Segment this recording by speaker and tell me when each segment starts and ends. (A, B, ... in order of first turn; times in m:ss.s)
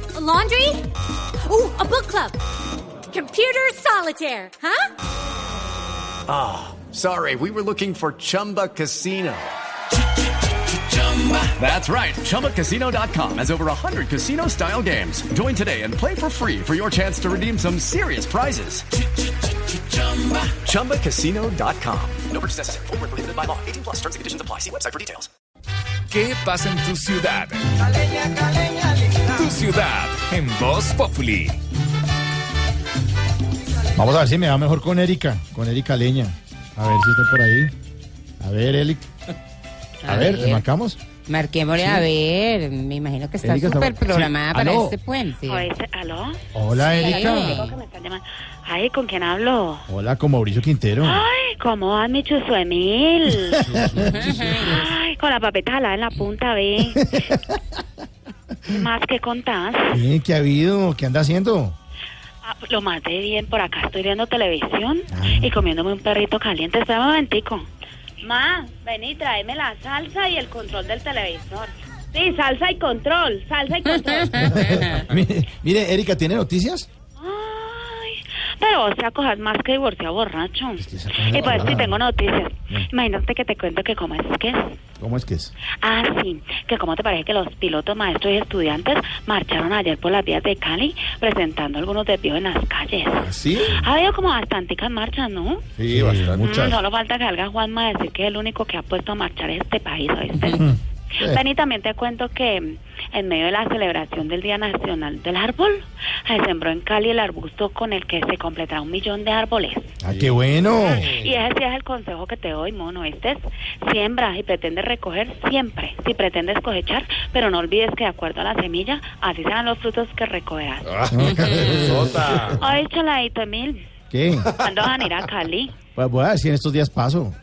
0:00.1-0:00.9 A
0:01.5-0:02.4 A
0:03.1-0:04.9 A
0:06.3-0:09.5 B
0:11.0-0:18.9 B
0:20.5-0:25.3 B
0:26.1-0:27.8 C
0:28.4-0:31.6 C
0:33.9-0:37.7 D
0:38.4-0:39.1 D
0:40.0-0:40.6 E
0:40.0-0:41.0 D
0:41.3-0:45.7 E
0:41.7-0:42.1 D
0:43.4-0:45.0 D
0:45.4-0:49.9 F
0:46.5-0:47.6 D
0:46.8-0:47.8 E
0:49.9-0:51.2 D
0:51.0-0:57.3 F
0:53.6-0:54.6 D
0:54.0-0:54.9 E
0:57.0-0:57.6 D
0:58.7-1:00.0 F
0:59.9-1:01.8 D
1:02.4-1:07.6 F
1:05.1-1:05.5 D
1:08.2-1:14.7 F
1:14.2-1:15.0 E
1:14.4-1:16.9 D
1:17.2-1:24.7 F
1:20.8-1:22.0 D
1:25.0-1:25.5 D
1:25.8-1:35.6 F
1:33.2-1:33.9 D
1:35.8-1:36.8 D
1:35.9-1:36.4 B
1:36.4-1:49.9 F
1:40.5-1:41.4 D
1:50.0-1:51.2 D
1:50.1-1:51.3 B
1:50.8-2:01.0 F
2:00.9-2:02.6 B
2:01.1-2:02.6 D
2:01.4-2:01.8 E
2:02.4-2:03.8 F
2:04.1-2:04.5 D
2:04.5-2:05.8 F
2:06.0-2:07.4 D